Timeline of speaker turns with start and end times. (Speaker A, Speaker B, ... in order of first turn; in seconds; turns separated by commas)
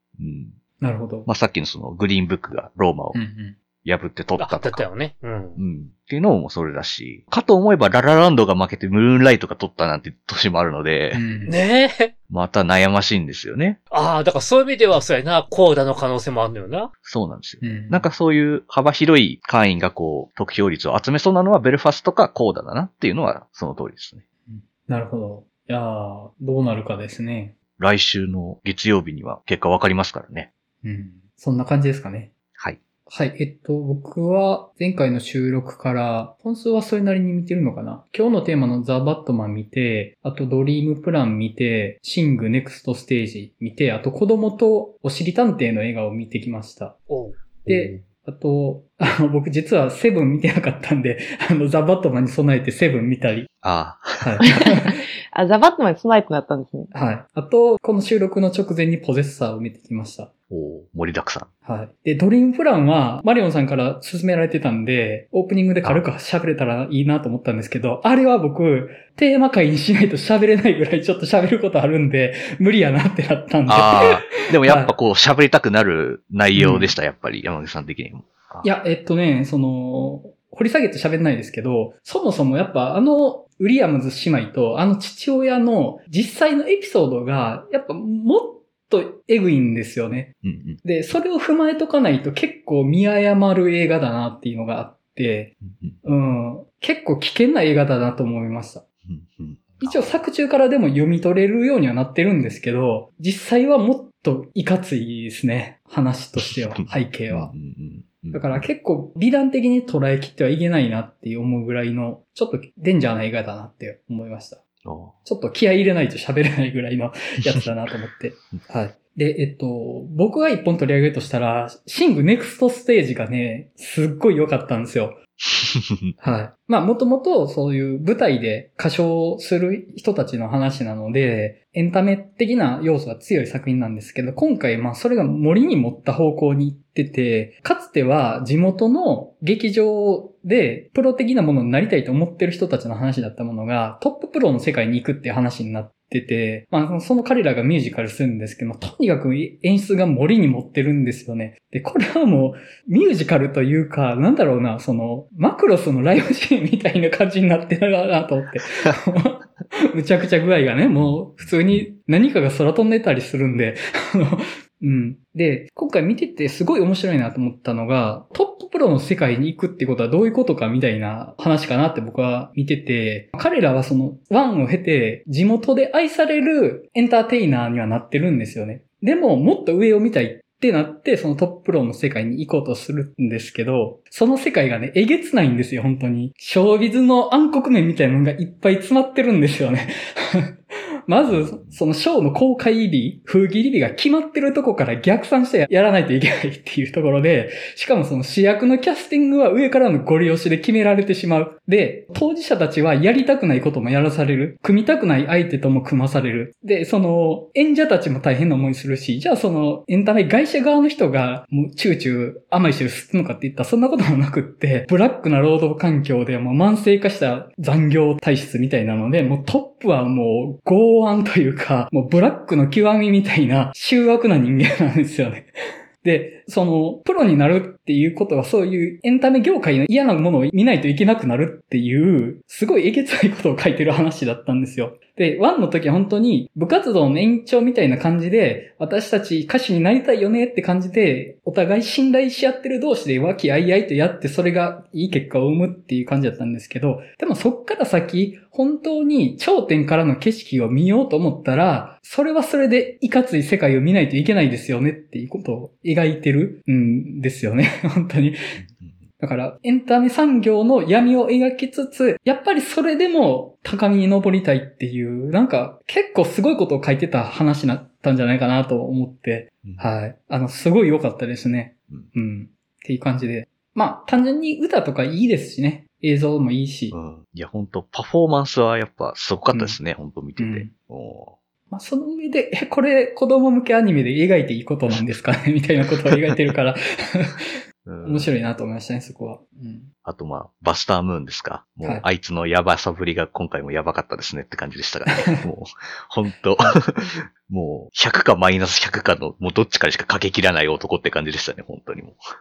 Speaker A: 0.2-0.6, Speaker B: 0.8-1.3, Speaker A: 1.3-3.2, Speaker B: 3.1-3.6, Speaker A: 3.8-4.9, Speaker C: 4.4-5.6, Speaker A: 5.6-11.2, Speaker B: 11.1-11.5, Speaker C: 11.5-12.1, Speaker A: 12.3-13.8, Speaker C: 13.9-16.9, Speaker A: 17.0-24.2, Speaker B: 17.6-18.1, Speaker B: 24.5-27.6, Speaker A: 27.8-30.5, Speaker B: 30.8-32.3, Speaker B: 33.1-47.0, Speaker C: 47.1-47.5, Speaker B: 47.6-53.5, Speaker A: 47.7-47.9, Speaker A: 53.6-54.5, Speaker B: 54.2-55.0, Speaker D: 54.5-56.9, Speaker B: 56.9-60.3, Speaker A: 60.5-61.5, Speaker B: 61.6-74.9, Speaker A: 73.7-78.7, Speaker B: 76.5-77.0, Speaker B: 78.6-98.8, Speaker A: 90.4-90.8, Speaker A: 99.1-100.2, Speaker B: 99.8-107.5, Speaker A: 106.4-108.7, Speaker B: 108.3-114.6, Speaker A: 114.8-115.2, Speaker B: 115.2-125.2, Speaker B: 126.2-190.6, Speaker A: 161.1-161.8, Speaker B: 191.1-225.5, Speaker A: 191.3-191.8, Speaker B: 226.0-258.4, Speaker A: 258.6-259.0, Speaker B: 259.2-276.9, Speaker A: 276.9-281.4, Speaker B: 279.5-279.8, Speaker B: 280.4-280.7, Speaker B: 281.7-287.5, Speaker A: 287.9-288.3, Speaker B: 288.0-289.9, Speaker A: 290.1-302.2